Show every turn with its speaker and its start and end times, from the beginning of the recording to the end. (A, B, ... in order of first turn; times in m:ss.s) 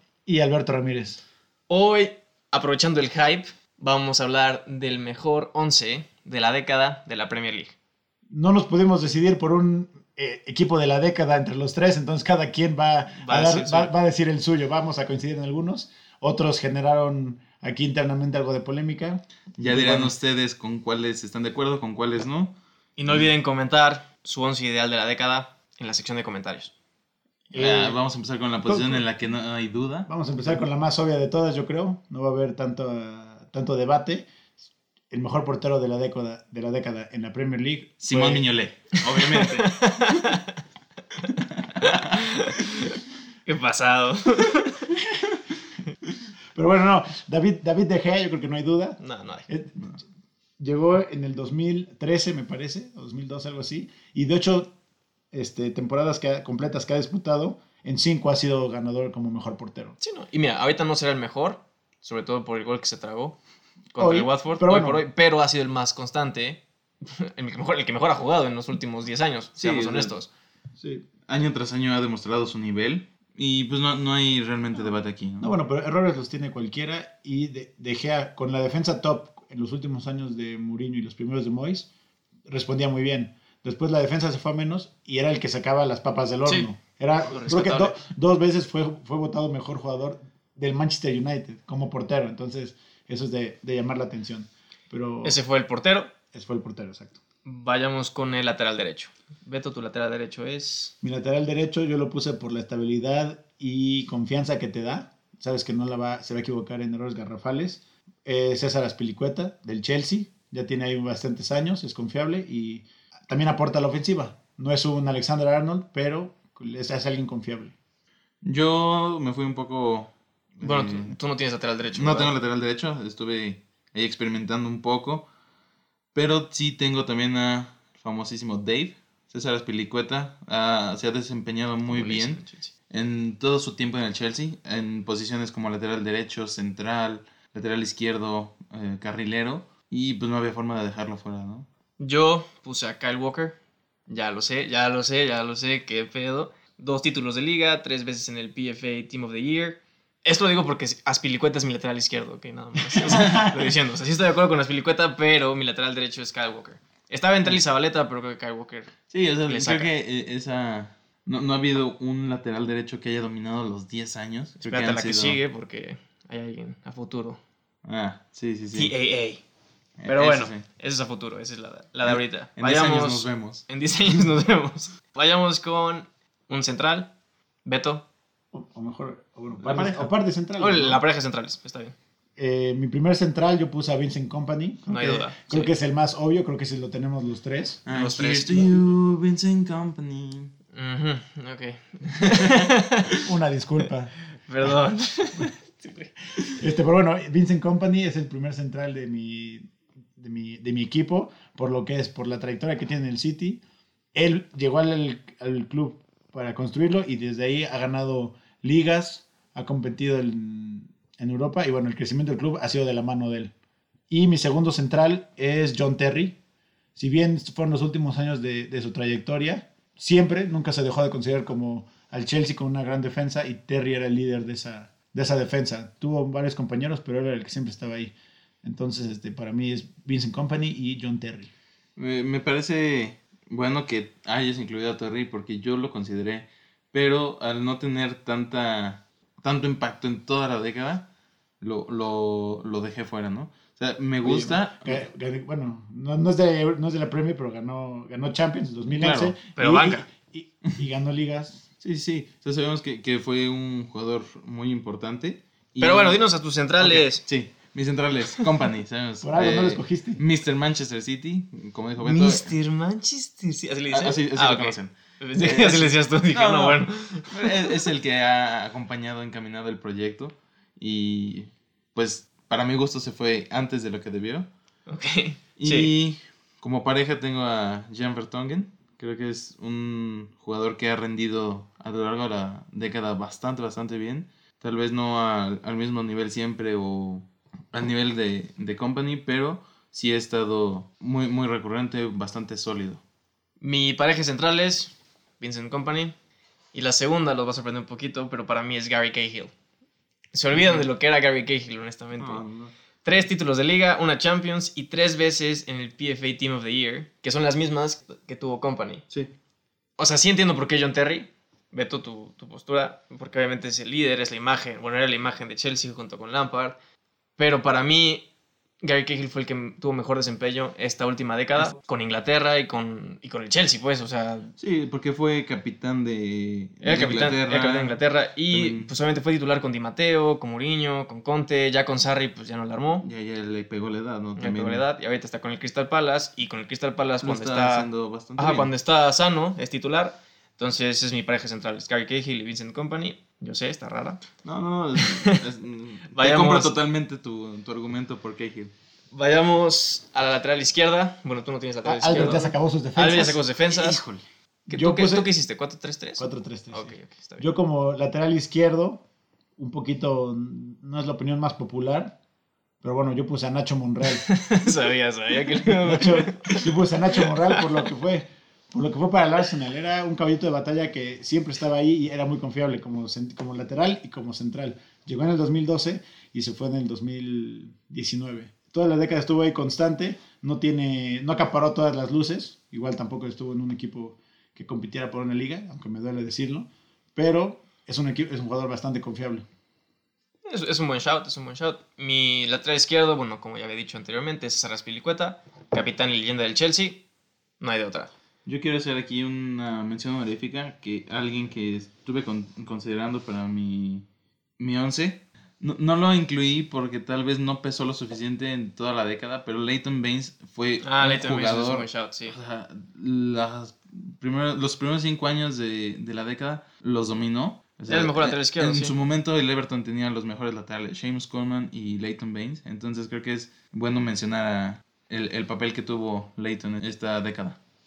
0:00.3-0:01.2 A
0:01.7-0:07.8 B
0:08.3-0:20.2 A
0:13.2-0:13.9 B
0:19.6-0:22.6 C
0:23.0-0:26.7 B
0:27.5-0:28.0 A
0:27.5-0:30.6 C
0:28.7-0:29.1 A
0:30.1-0:34.3 A
0:35.1-0:38.4 A
0:38.0-0:39.8 C
0:39.2-0:40.5 B
0:41.7-0:42.0 C
0:41.8-0:44.9 B
0:46.6-0:50.0 A
0:49.0-0:49.4 B
0:50.6-0:54.7 A
0:55.3-1:00.0 A
1:00.0-1:03.4 B
1:03.9-1:10.3 B
1:04.0-1:05.0 A
1:09.6-1:10.2 C
1:10.8-1:11.0 A
1:11.3-1:15.5 C
1:15.4-1:21.9 A
1:22.5-1:35.4 A
1:26.4-1:26.7 B
1:27.3-1:28.0 B
1:35.2-1:36.1 B
1:36.3-1:37.2 A
1:37.4-1:40.9 B
1:41.0-1:57.8 A
1:58.4-2:01.2 C
2:00.6-2:02.3 B
2:01.9-2:05.3 C
2:06.1-2:21.7 C
2:11.9-2:12.7 B
2:22.0-2:23.6 B
2:24.1-2:39.9 B
2:33.1-2:33.6 C
2:39.1-2:45.4 C
2:44.6-2:47.4 B
2:47.8-2:48.9 C
2:48.7-2:49.4 B
2:50.0-2:50.6 C
2:50.0-2:57.1 B
2:52.0-2:53.6 C
2:57.6-2:58.0 B
2:58.5-3:01.0 A
2:59.6-3:00.1 C
3:00.6-3:02.0 B
3:02.4-3:07.8 A
3:04.9-3:05.7 B
3:07.8-3:10.5 C
3:07.9-3:08.8 B
3:10.7-3:13.2 B
3:13.2-3:14.8 A
3:14.4-3:16.6 B
3:16.6-3:23.6 A
3:24.1-3:33.5 A
3:34.1-3:36.4 A
3:37.0-3:51.5 A
3:52.0-4:01.0 C
4:01.6-4:05.0 C
4:04.2-4:11.7 A
4:08.9-4:09.4 C
4:09.6-4:10.1 B
4:11.8-4:22.6 C
4:15.8-4:17.2 B
4:19.2-4:20.2 A
4:22.0-4:27.7 B
4:23.9-4:34.5 C
4:34.9-4:35.9 B
4:35.6-4:53.0 C
4:53.6-4:56.2 B
4:56.7-4:59.5 B
5:00.3-5:02.4 B
5:00.5-5:00.9 C
5:02.2-5:02.7 C
5:03.0-5:09.0 B
5:10.0-5:16.8 B
5:17.4-5:18.3 B
5:18.8-5:24.5 B
5:24.6-5:28.9 C
5:26.8-5:33.1 B
5:33.0-5:34.8 C
5:34.4-5:44.2 B
5:37.2-5:38.7 C
5:44.4-5:48.7 C
5:45.0-5:45.4 B
5:46.1-5:46.8 B
5:49.1-5:54.0 B
5:51.8-5:53.4 A
5:52.1-5:52.4 C
5:53.7-5:54.2 C
5:54.7-5:55.3 A
5:54.7-5:57.4 B
5:56.2-5:59.0 A
5:59.6-6:02.2 A
6:02.8-6:04.3 A
6:04.3-6:07.8 B
6:05.4-6:29.4 A
6:30.5-6:37.0 B
6:37.6-6:38.1 B
6:38.5-6:44.1 C
6:44.6-7:07.6 C
6:50.8-6:52.4 B
6:57.9-6:59.0 B